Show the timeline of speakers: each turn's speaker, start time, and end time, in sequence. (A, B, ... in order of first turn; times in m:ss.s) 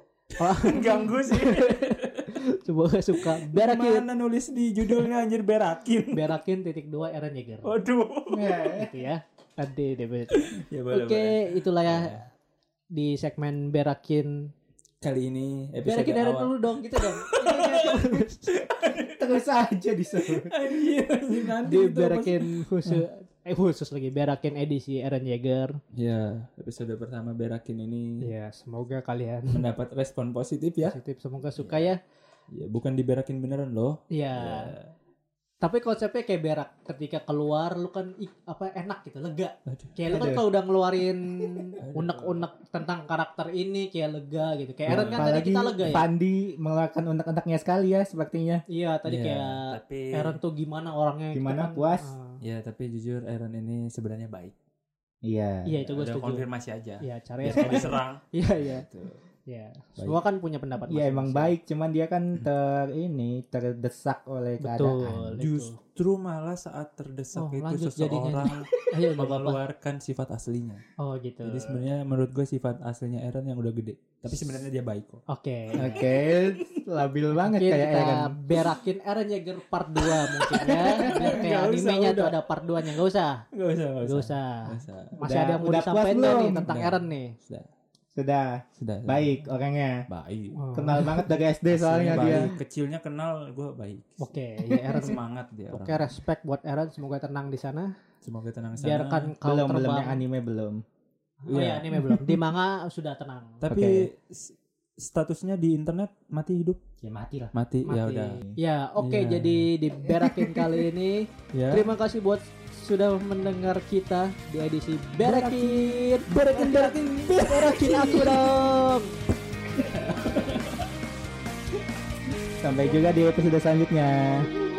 0:00.4-0:04.0 A
0:00.4-0:02.3 B
0:03.2-0:06.4 B
0:06.1-0:07.7 A
0:07.6-0:08.5 B
0:08.3-0:08.9 C
0:08.8-0:12.2 A
0:10.3-0:12.2 B
0:12.9-0:14.5 A
0:15.0-0:19.4 B
0:15.8-0:18.5 A
0:19.1-0:20.5 C
0:20.2-0:23.0 B
0:21.6-0:25.8 A
0:25.9-0:28.2 B
0:28.2-0:29.7 A
0:29.5-0:31.0 B
0:30.8-0:32.0 A
0:31.6-0:31.9 B
0:32.5-0:34.9 B
0:34.1-0:34.7 A
0:35.6-0:46.0 A
0:39.7-0:40.0 B
0:40.1-0:40.4 C
0:41.8-0:42.4 B
0:44.9-0:45.3 B
0:44.9-0:48.6 C
0:48.7-0:52.4 A
0:49.0-0:50.4 B
0:51.3-0:52.1 C
0:52.4-0:54.5 B
0:55.2-0:55.8 C
0:55.7-0:56.4 A
0:55.9-0:59.2 B
0:57.0-0:58.9 A
0:59.5-1:01.5 A
1:00.9-1:05.4 C
1:04.6-1:05.8 A
1:05.4-1:10.8 B
1:07.4-1:09.6 A
1:11.0-1:11.8 A
1:11.4-1:15.2 B
1:15.3-1:16.0 A
1:15.8-1:16.8 B
1:15.8-1:18.3 C
1:17.4-1:23.4 A
1:20.0-1:22.6 B
1:23.5-1:25.2 B
1:24.0-1:27.4 A
1:25.2-1:26.8 C
1:26.3-1:27.7 B
1:28.2-1:30.0 C
1:28.8-1:29.4 B
1:30.1-1:31.2 B
1:30.6-1:31.0 A
1:30.8-1:32.5 C
1:31.7-1:34.3 B
1:32.1-1:32.6 A
1:34.2-1:37.9 A
1:34.9-1:36.2 B
1:38.2-1:39.3 B
1:38.8-1:40.2 A
1:39.4-1:40.8 C
1:41.4-1:43.7 A
1:41.5-1:42.4 B
1:43.6-1:46.8 B
1:43.7-1:44.1 C
1:47.0-1:47.5 C
1:47.5-1:48.5 B
1:47.9-1:59.1 A
1:49.0-1:49.7 B
1:51.5-1:51.9 B
1:55.2-1:57.4 B
1:57.7-1:58.5 C
1:59.8-2:00.9 B
2:02.6-2:04.5 C